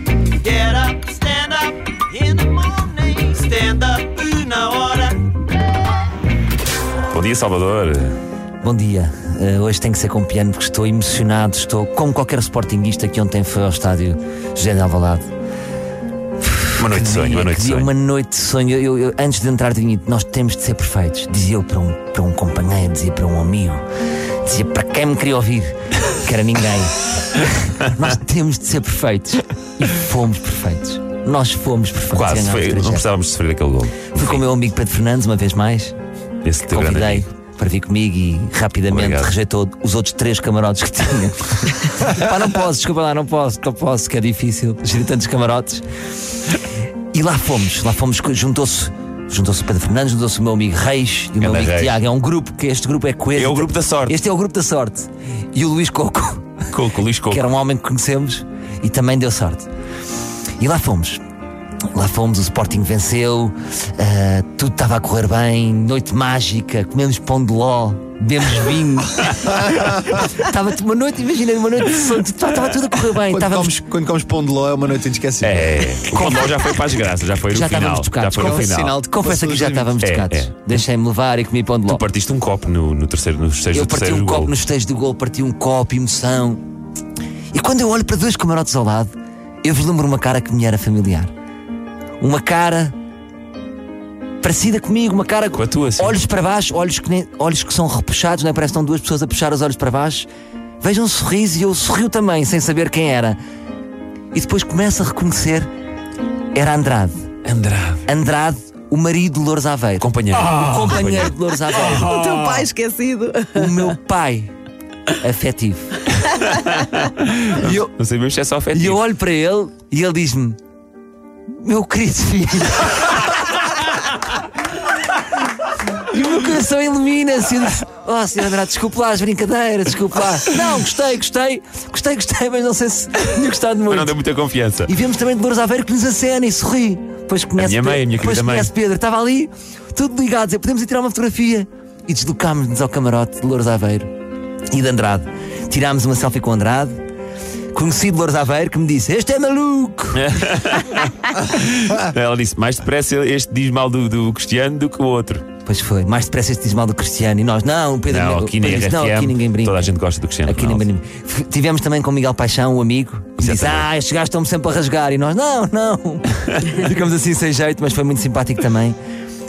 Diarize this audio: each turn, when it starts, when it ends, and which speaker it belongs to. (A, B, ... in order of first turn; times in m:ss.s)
0:00.4-0:05.4 A
0:07.1-0:08.2 B
0:08.6-0:15.3 C
0:16.4-0:23.8 C
0:16.8-0:17.9 B
0:24.4-0:33.1 C
0:32.1-0:34.5 B
0:34.2-0:36.0 C
0:36.4-0:37.3 B
0:36.7-0:45.8 C
0:38.9-0:39.3 B
0:47.1-0:56.6 C
0:51.4-0:52.0 B
0:53.4-0:54.2 B
0:56.7-0:57.5 B
0:57.3-0:59.7 C
1:00.6-1:01.2 C
1:01.9-1:13.8 C
1:09.7-1:10.1 D
1:13.2-1:16.0 D
1:15.4-1:19.0 B
1:16.1-1:16.7 C
1:17.5-1:22.0 C
1:18.4-1:20.0 D
1:20.0-1:20.8 B
1:21.9-1:24.5 B
1:23.7-1:26.6 C
1:27.5-1:29.1 C
1:29.6-1:31.3 C
1:32.2-1:33.0 C
1:34.4-1:40.3 C
1:35.6-1:36.2 B
1:40.8-1:43.4 C
1:44.3-1:45.7 C
1:46.5-1:47.2 C
1:47.4-1:48.1 B
1:48.1-1:52.2 C
1:50.0-1:52.6 B
1:51.8-1:53.8 E
1:53.5-1:54.5 C
1:55.1-1:56.4 C
1:56.2-1:59.0 B
1:57.5-1:57.9 C
1:58.7-2:00.6 C
2:01.5-2:03.4 C
2:05.9-2:14.1 C
2:13.9-2:14.9 B
2:14.9-2:24.1 C
2:17.6-2:18.7 B
2:24.7-2:27.0 C
2:27.7-2:30.3 C
2:30.1-2:35.5 B
2:35.6-2:49.0 C
2:38.1-2:40.9 B
2:43.4-2:43.9 B